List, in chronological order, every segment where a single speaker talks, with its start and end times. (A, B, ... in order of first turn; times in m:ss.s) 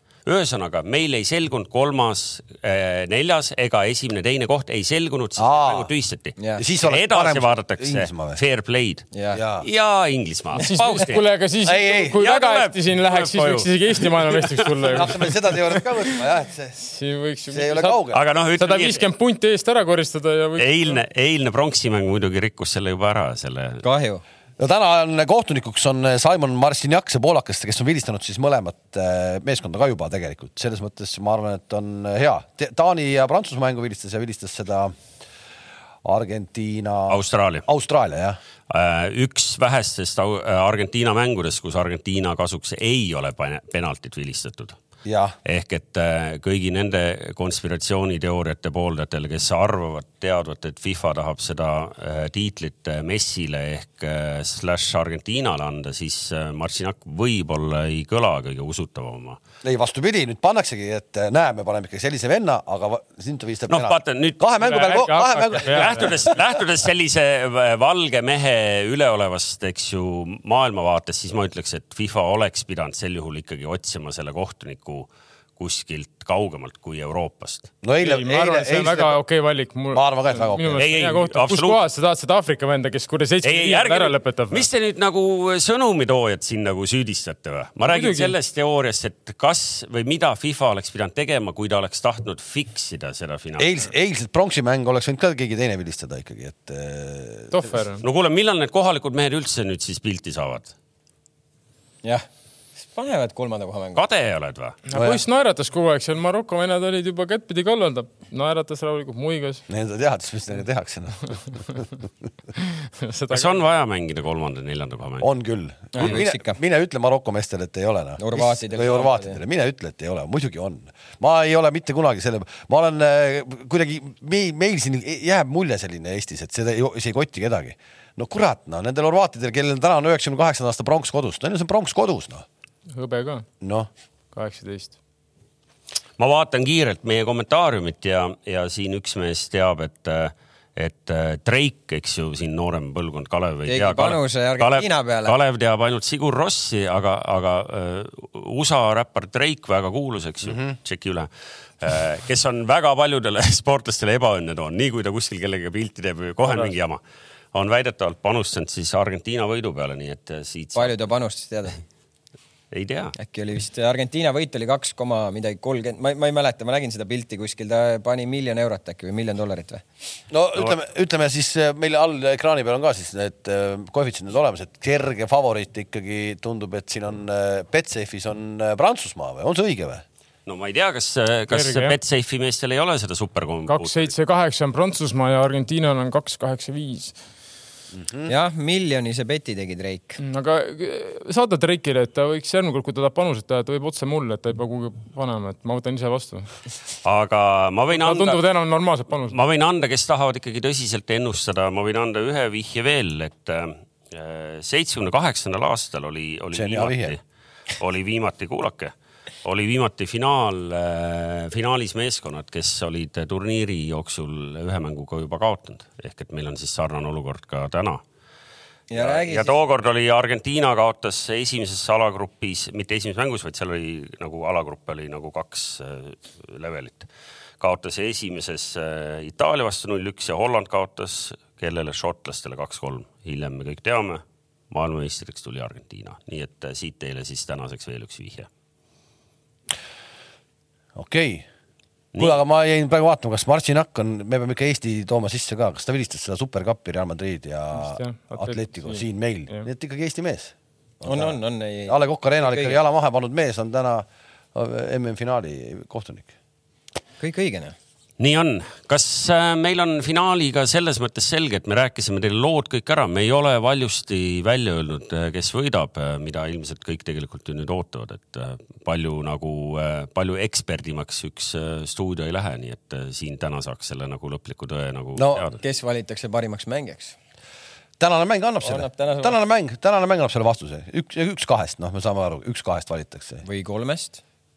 0:00.2-0:09.0 A
0:05.4-0:05.9 B
0:06.4-0:06.6 C
0:06.6-0:08.4 B
0:09.1-0:09.4 C
0:09.3-0:09.6 B
0:09.6-0:11.2 A
0:10.5-0:15.8 D
0:11.6-0:12.2 B
0:12.1-0:15.2 A
0:14.9-0:16.8 B
0:16.8-0:18.0 D
0:17.5-0:18.2 B
0:18.1-0:19.0 A
0:18.6-0:21.0 D
0:20.6-0:23.8 A
0:23.8-0:24.2 C
0:24.6-0:34.9 B
0:36.0-0:38.4 B
0:37.1-0:37.7 A
0:38.7-0:44.8 A
0:45.0-0:45.3 B
0:45.4-0:59.4 A
0:59.6-1:06.3 B
1:03.7-1:04.4 A
1:04.6-1:06.0 D
1:05.6-1:17.7 A
1:17.8-1:19.2 B
1:18.0-1:24.7 D
1:19.9-1:20.8 B
1:20.8-1:21.8 A
1:23.4-1:33.7 A
1:27.8-1:28.3 D
1:33.6-1:37.7 B
1:37.5-1:38.0 D
1:38.0-1:40.7 A
1:42.8-1:44.0 C
1:44.0-1:44.8 A
1:44.9-1:49.6 D
1:44.9-1:45.2 B
1:49.7-1:51.9 B
1:53.0-1:53.6 D
1:53.3-1:55.3 A
1:55.2-2:12.4 B
1:55.9-1:56.6 C
1:58.2-1:59.4 C
2:12.9-2:13.5 D
2:13.6-2:13.9 B
2:14.3-2:14.9 D
2:16.2-2:31.3 A
2:23.7-2:25.4 C
2:31.8-2:37.0 A
2:37.5-2:41.0 A
2:40.7-2:41.8 C
2:42.7-2:43.1 A
2:43.2-2:49.8 C
2:50.3-3:00.0 B
3:00.4-3:04.1 A
3:01.5-3:02.0 D
3:03.7-3:07.2 D
3:07.9-3:08.3 B
3:08.2-3:10.2 C
3:10.2-3:16.6 D
3:17.0-3:18.4 A
3:17.9-3:19.4 D
3:19.3-3:27.2 A
3:26.5-3:27.2 B
3:27.8-3:28.9 A
3:29.4-3:38.0 A
3:38.9-3:39.5 C
3:38.9-3:47.1 A
3:47.6-3:58.5 A
4:00.9-4:01.4 B
4:02.1-4:02.4 A
4:02.2-4:16.3 B
4:07.7-4:09.6 D
4:11.0-4:12.8 C
4:17.2-4:17.7 C
4:18.2-4:35.6 A
4:35.2-4:35.4 B
4:35.6-4:37.2 C
4:38.0-4:43.4 B
4:38.6-4:39.4 C
4:43.4-4:44.2 C